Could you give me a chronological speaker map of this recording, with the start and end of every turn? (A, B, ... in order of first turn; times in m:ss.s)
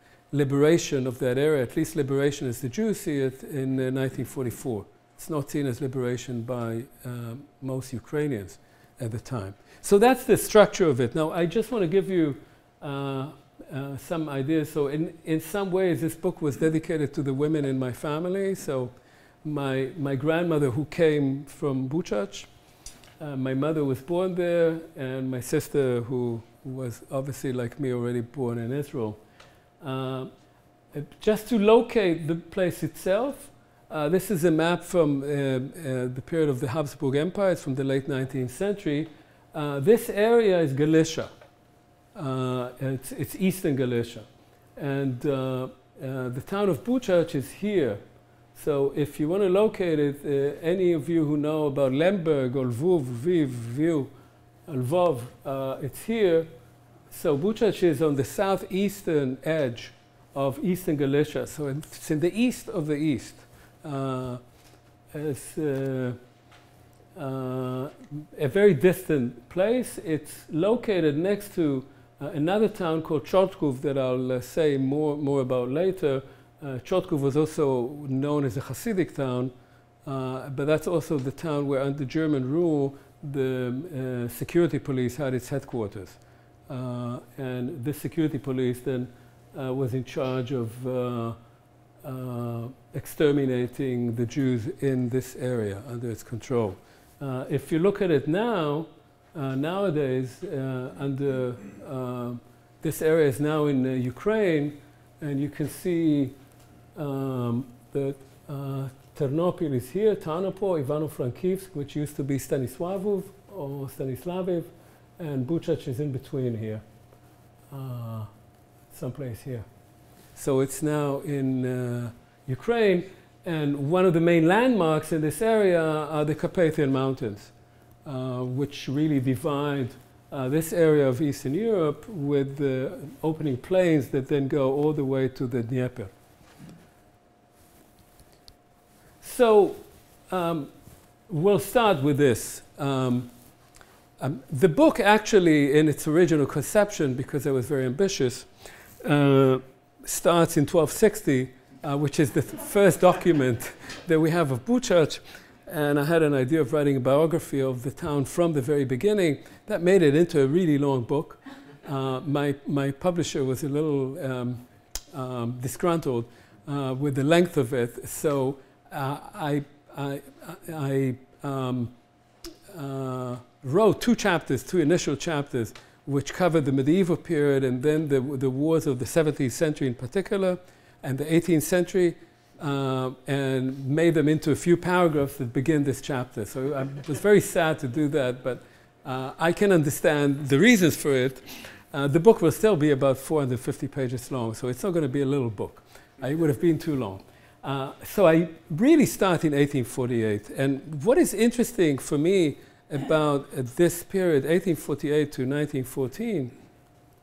0:00.3-0:22.5 A
0:23.2-0:29.2 A
0:29.8-0:30.3 A
0:30.9-0:41.3 A
0:42.1-0:48.0 A
0:48.5-0:54.1 A
0:54.7-0:56.5 A
0:57.1-1:04.4 A
1:05.1-1:06.2 A
1:07.2-1:19.5 A
1:20.0-1:31.4 A
1:32.0-1:46.4 A
1:46.9-1:56.8 A
1:57.7-1:58.3 A
1:58.9-1:59.6 A
2:00.4-2:07.5 A
2:08.0-2:16.1 A
2:19.2-2:20.7 A
2:21.3-2:23.3 A
2:24.2-2:51.9 A
2:52.7-3:26.5 A